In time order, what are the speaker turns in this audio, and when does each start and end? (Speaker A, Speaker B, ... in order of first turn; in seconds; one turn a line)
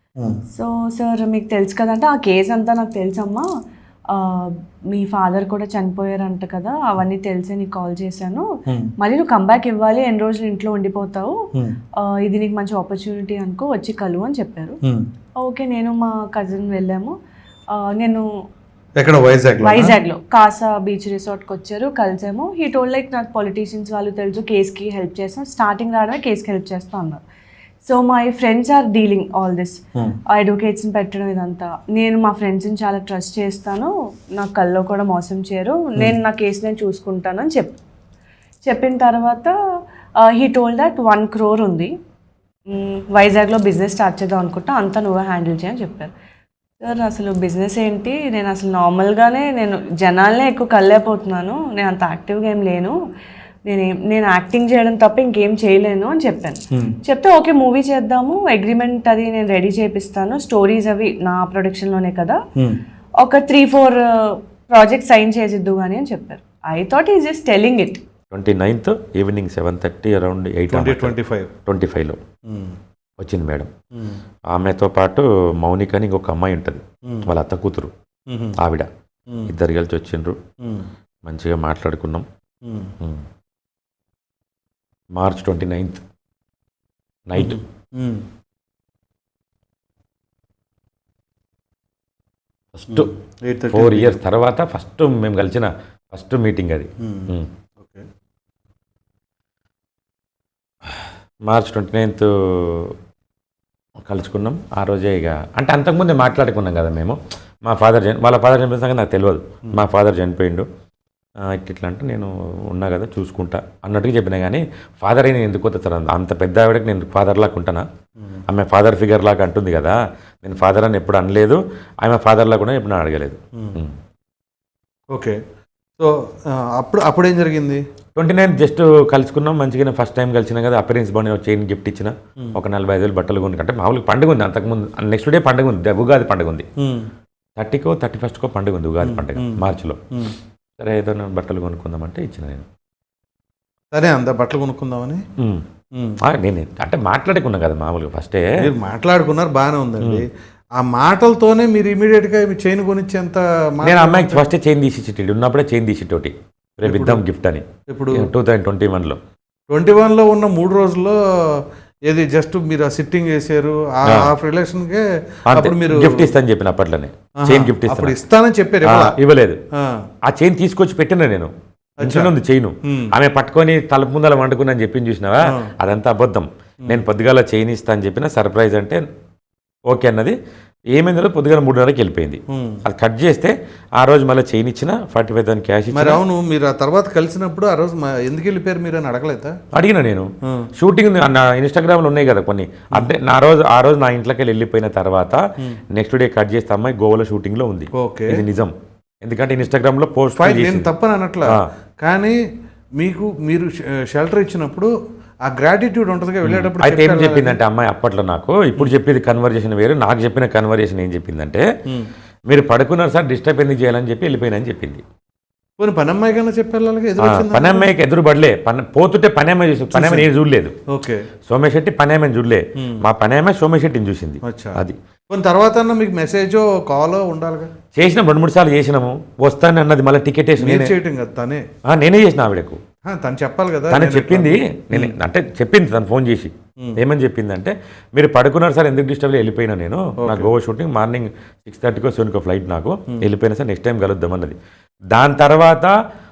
Speaker A: 0.5-3.5
Speaker A: 4.1-8.5
Speaker A: 9.0-11.4
Speaker A: 12.0-14.8
Speaker A: 15.4-17.1
Speaker A: 17.7-18.2
Speaker B: 19.0-20.0
Speaker A: 19.6-27.2
Speaker A: 27.8-37.8
Speaker A: 38.6-39.5
Speaker A: 40.2-41.9
Speaker A: 42.7-46.1
Speaker A: 46.8-53.0
Speaker A: 53.6-62.4
Speaker B: 56.7-57.0
Speaker A: 63.2-68.0
Speaker C: 68.3-72.2
Speaker B: 70.7-71.5
Speaker B: 72.5-72.8
Speaker C: 73.2-73.7
Speaker B: 73.9-74.2
Speaker C: 74.5-77.9
Speaker B: 77.0-77.3
Speaker B: 78.3-78.6
Speaker C: 78.6-78.9
Speaker B: 79.3-79.5
Speaker C: 79.5-80.4
Speaker B: 80.6-80.9
Speaker C: 81.2-82.2
Speaker B: 82.6-82.9
Speaker C: 85.2-86.0
Speaker C: 87.3-87.6
Speaker B: 87.4-88.2
Speaker C: 92.7-93.1
Speaker B: 92.9-94.2
Speaker C: 93.7-97.5
Speaker B: 97.0-98.1
Speaker C: 101.5-102.9
Speaker C: 104.1-110.7
Speaker C: 111.5-117.8
Speaker C: 118.5-123.9
Speaker B: 125.1-125.4
Speaker B: 126.0-127.8
Speaker C: 128.2-136.7
Speaker B: 136.8-137.1
Speaker C: 137.6-140.0
Speaker B: 139.0-140.4
Speaker C: 140.8-142.6
Speaker B: 143.9-145.2
Speaker C: 145.4-145.6
Speaker B: 145.9-146.2
Speaker C: 146.2-148.4
Speaker B: 148.6-154.4
Speaker C: 150.0-150.2
Speaker C: 153.8-159.2
Speaker B: 156.8-157.2
Speaker B: 157.9-158.3
Speaker B: 159.7-166.3
Speaker C: 164.0-164.3
Speaker C: 165.5-168.2
Speaker B: 167.4-169.2
Speaker C: 168.8-169.6
Speaker B: 169.8-170.0
Speaker C: 170.2-171.5
Speaker B: 172.0-172.3
Speaker C: 172.0-179.0
Speaker C: 179.9-180.4
Speaker C: 180.9-186.2
Speaker B: 182.5-182.8
Speaker B: 185.9-189.6
Speaker C: 189.7-195.4
Speaker C: 195.9-200.9
Speaker B: 198.0-198.4
Speaker B: 200.4-202.4
Speaker B: 203.0-204.9
Speaker B: 205.4-207.6
Speaker C: 206.4-211.6
Speaker C: 212.5-215.0
Speaker B: 215.8-217.9
Speaker C: 217.2-220.7
Speaker B: 219.9-220.3
Speaker B: 220.9-221.3
Speaker C: 221.5-225.0
Speaker B: 224.4-227.7
Speaker C: 227.9-230.9
Speaker B: 230.6-231.7
Speaker C: 231.9-232.8
Speaker B: 233.1-235.1
Speaker C: 233.9-244.6
Speaker B: 240.2-240.5
Speaker C: 245.1-245.9